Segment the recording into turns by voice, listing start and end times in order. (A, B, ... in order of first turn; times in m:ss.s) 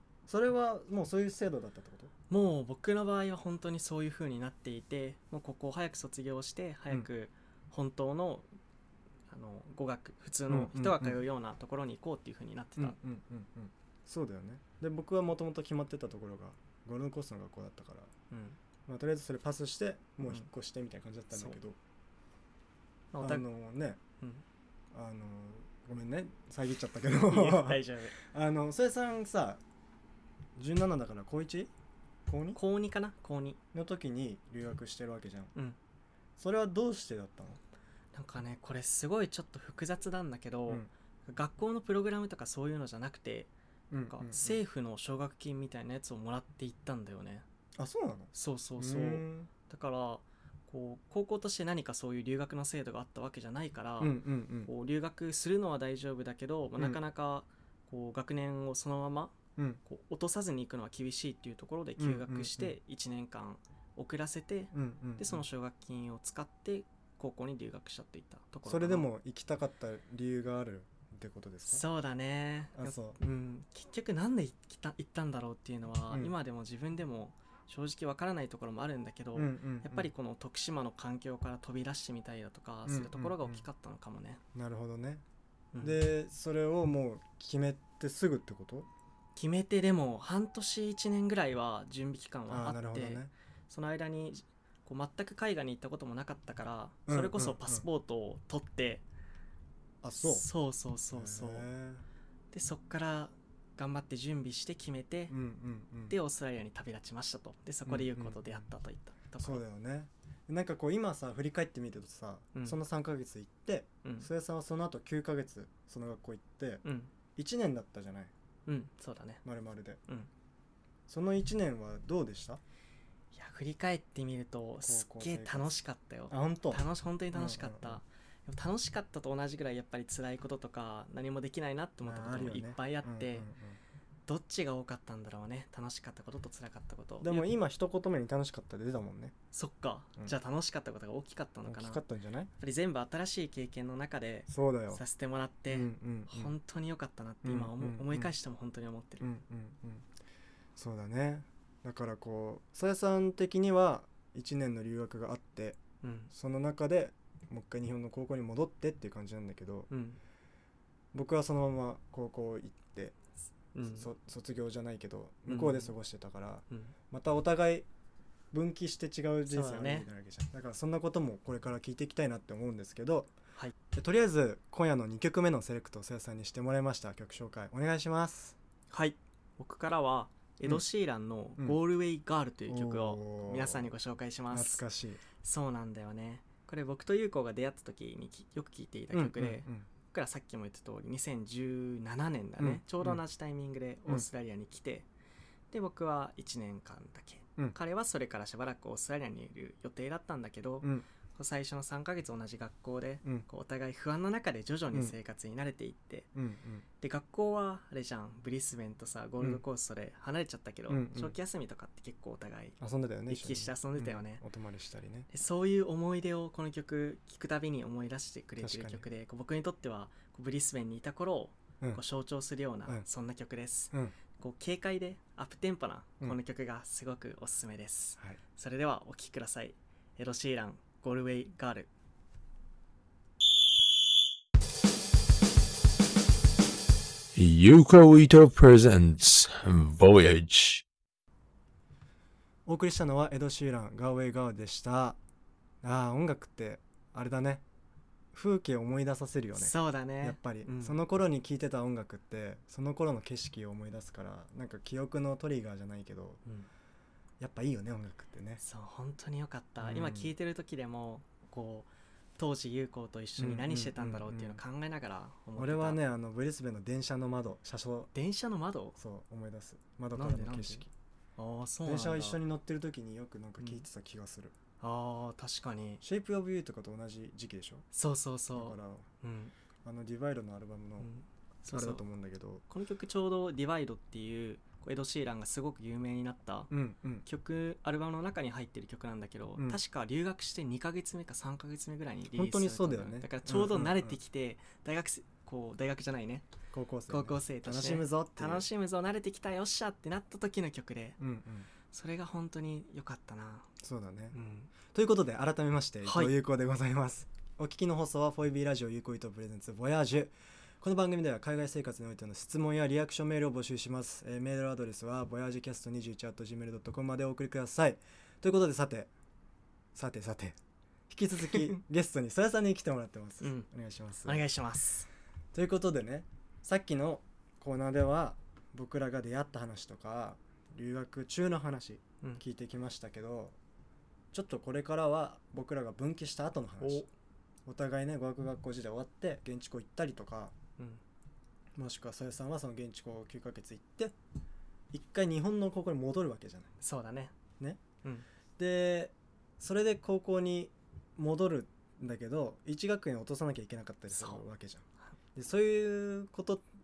0:00.3-0:02.1 A
0:02.3-0:08.5 B
0:09.3-0:13.0 B
0:10.5-0:11.2 A
0:12.8-0:18.1 A
0:18.3-0:18.6 B
0:18.9-0:21.8 A
0:23.1-0:23.4 B
0:23.2-0:24.0 A
0:24.9-0:29.6 A
0:27.2-0:28.2 B
0:30.6-0:31.7 A
0:32.3-0:32.6 A
0:32.5-0:33.6 B
0:33.7-0:35.5 A
0:36.4-0:37.6 A
0:38.1-0:43.5 B
0:43.9-0:44.6 A
0:44.1-0:47.4 B
0:47.8-0:49.5 A
0:48.3-1:09.1 B
0:54.0-0:54.7 A
1:02.0-1:02.7 A
1:04.7-1:05.4 A
1:08.6-1:11.8 A
1:11.6-1:24.4 B
1:12.7-1:13.2 A
1:19.3-1:20.1 A
1:22.8-1:23.6 A
1:24.5-1:25.2 A
1:25.7-1:26.0 B
1:25.8-1:28.9 A
1:29.4-1:39.0 B
1:32.5-1:33.3 A
1:37.1-1:37.8 A
1:40.0-1:40.4 A
1:40.1-1:41.7 B
1:41.1-1:42.0 A
1:42.5-1:45.3 B
1:45.3-1:46.1 A
1:46.1-1:49.6 B
1:47.8-1:48.7 A
1:49.4-1:56.8 A
1:54.0-1:54.3 B
1:56.8-1:57.1 B
1:57.4-1:58.3 A
1:58.6-1:59.4 B
1:59.4-2:00.0 A
2:01.1-2:02.6 A
2:03.3-2:13.5 B
2:04.8-2:05.7 A
2:06.3-2:08.0 A
2:12.0-2:13.8 A
2:14.3-2:17.5 B
2:17.2-2:19.3 A
2:19.5-2:22.0 B
2:21.6-2:22.5 A
2:22.6-2:29.2 B
2:24.5-2:25.0 A
2:25.7-2:26.5 A
2:27.4-2:28.3 A
2:29.2-2:30.1 A
2:30.8-2:35.8 A
2:36.0-2:36.3 B
2:36.3-2:39.9 A
2:39.9-2:40.2 B
2:41.1-2:43.2 A
2:43.7-2:44.1 B
2:43.9-2:47.9 A
2:45.5-2:45.9 B
2:48.5-2:53.3 A
2:49.5-2:50.1 B
2:53.9-2:58.6 A
2:58.9-3:04.8 B
3:02.7-3:03.9 A
3:04.5-3:05.2 A
3:05.4-3:15.1 B
3:09.1-3:09.9 A
3:12.6-3:13.2 A
3:15.7-3:26.3 B
3:26.3-3:26.8 A
3:27.0-3:34.4 B
3:30.9-3:31.3 A
3:32.8-3:35.3 A
3:35.3-3:51.9 B
3:38.6-3:39.0 A
3:57.3-4:00.8 C
4:02.6-4:05.2 A
4:05.8-4:07.6 A
4:08.3-4:16.4 A
4:09.6-4:11.0 B
4:17.4-4:18.6 A
4:18.6-4:26.0 B
4:19.8-4:20.3 A
4:23.4-4:24.6 A
4:25.6-4:28.1 A
4:28.1-4:29.0 B
4:29.0-4:30.9 A
4:30.1-4:30.8 B
4:31.4-4:32.4 B
4:31.8-4:34.5 A
4:33.6-4:33.8 B
4:34.8-4:36.0 B
4:36.0-4:37.8 A
4:37.9-4:39.5 B
4:38.5-4:39.1 A
4:39.8-4:41.1 A
4:41.0-4:42.0 B
4:41.7-4:42.6 A
4:42.7-4:46.7 B
4:46.7-4:47.2 A
4:47.2-4:56.5 B
4:52.3-4:54.2 A
4:56.7-4:58.7 A
4:57.1-5:01.2 B
5:01.2-5:01.7 A
5:01.9-5:03.7 B
5:03.8-5:19.1 A
5:04.3-5:04.7 B
5:06.0-5:06.3 B
5:19.9-5:20.6 A
5:21.1-5:24.4 A
5:23.4-5:23.7 B
5:24.2-5:25.1 B
5:25.5-5:33.6 A
5:34.3-5:37.0 A
5:36.8-5:37.1 B
5:37.6-5:40.5 A
5:41.8-5:44.1 A
5:44.9-5:46.7 A
5:46.8-5:47.3 B
5:48.6-5:56.6 A
5:54.1-5:54.4 B